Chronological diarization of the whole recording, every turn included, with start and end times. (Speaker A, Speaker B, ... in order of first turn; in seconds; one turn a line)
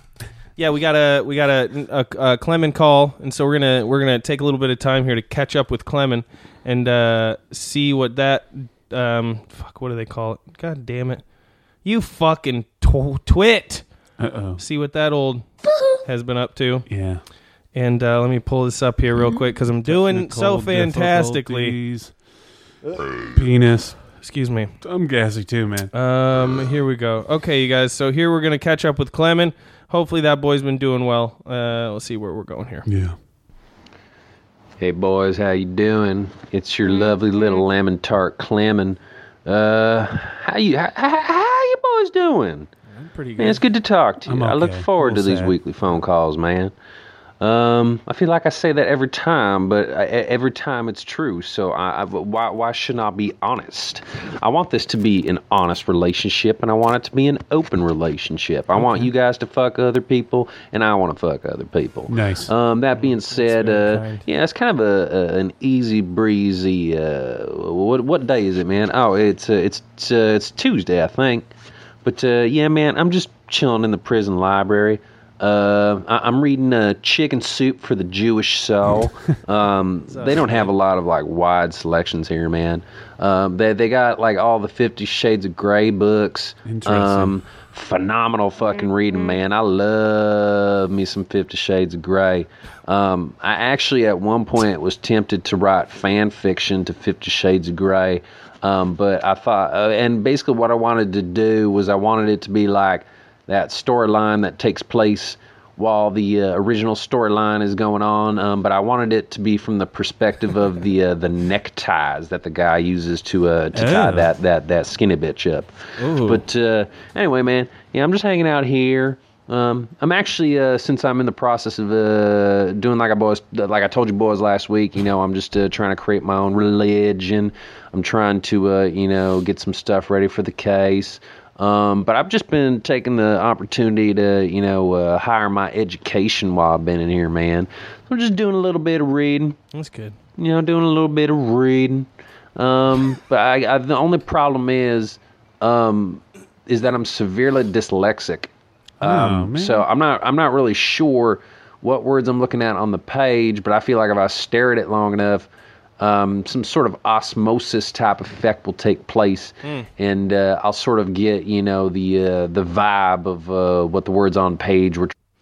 Speaker A: 0.6-11.3
Speaker A: 11.8-13.9
Speaker B: 14.2-14.6
Speaker A: 14.6-16.9
Speaker B: 16.9-17.2
Speaker A: 17.7-21.8
Speaker B: 19.8-22.1
Speaker B: 23.3-24.0
Speaker A: 24.2-24.7
Speaker B: 24.8-25.9
Speaker A: 25.9-32.9
Speaker B: 32.9-33.1
Speaker C: 34.8-42.7
Speaker A: 42.9-43.6
Speaker C: 43.4-46.7
Speaker B: 44.2-45.5
Speaker C: 47.4-71.5
Speaker A: 58.8-59.0
Speaker B: 62.1-62.5
Speaker A: 62.9-64.2
Speaker C: 72.0-139.6
Speaker A: 80.1-80.7
Speaker B: 86.6-87.3
Speaker B: 113.7-114.3
Speaker A: 116.0-116.4
Speaker A: 139.7-140.2
Speaker C: 140.4-165.1
Speaker B: 149.0-149.8
Speaker A: 159.6-159.9